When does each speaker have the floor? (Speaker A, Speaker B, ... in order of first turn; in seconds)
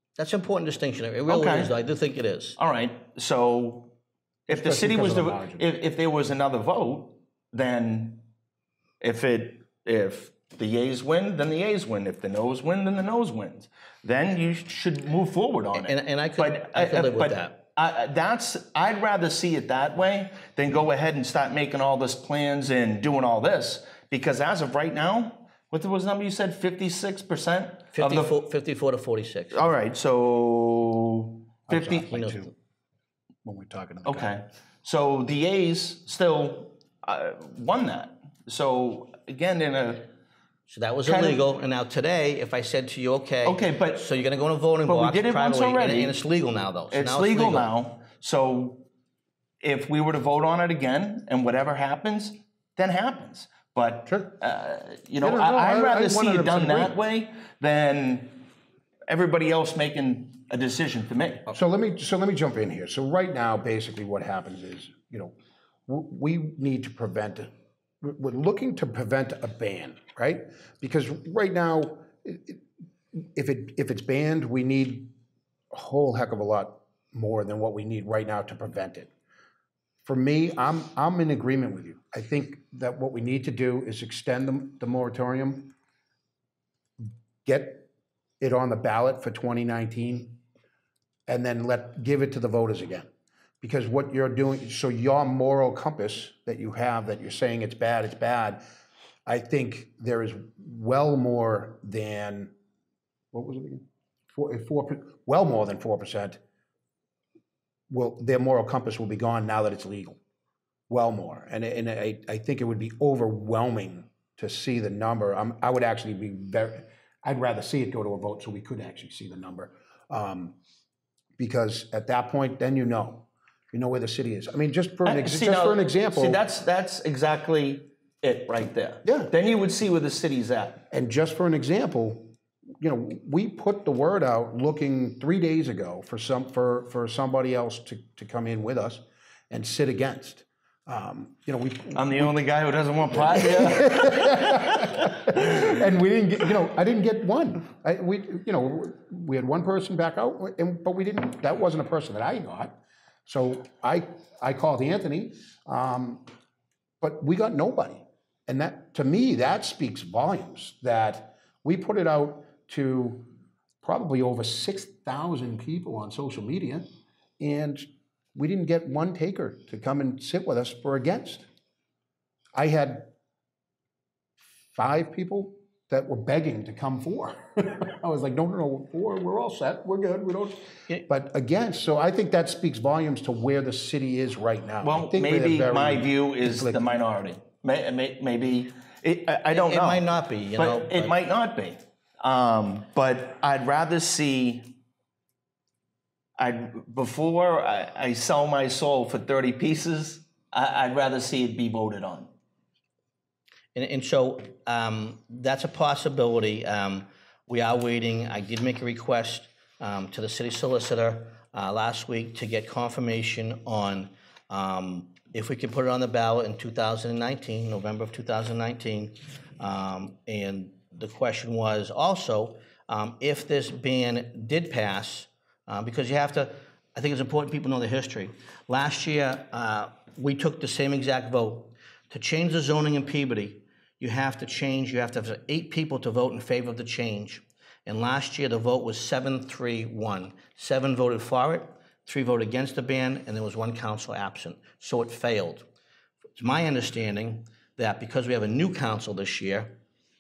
Speaker A: 0.2-2.6, 15.8-17.6, 27.9-29.7, 31.8-32.5, 40.7-47.7, 189.5-191.2, 203.8-245.7, 246.4-249.8
Speaker B: 1.3-1.7, 2.6-3.9, 4.5-8.3, 9.0-28.3, 29.5-32.1, 34.0-40.1, 41.1-41.4, 43.5-44.0, 44.9-46.2, 46.9-48.9, 49.6-58.5, 59.1-61.5, 125.0-130.8, 141.9-145.7, 184.8-194.8, 196.4-202.3
Speaker C: 4.5-5.7, 31.7-32.5, 33.4-34.4, 54.1-54.3, 55.2-57.0, 61.5-65.3, 65.9-75.1, 75.7-79.1, 80.0-85.7, 87.0-87.9, 88.4-90.4, 91.3-93.1, 93.6-98.6, 99.3-102.5, 103.3-106.4, 107.9-110.2, 110.9-120.6, 121.4-126.4, 129.0-129.3, 130.9-142.3, 143.1-156.3, 157.0-163.3, 163.8-171.5, 172.6-173.1, 174.7-186.9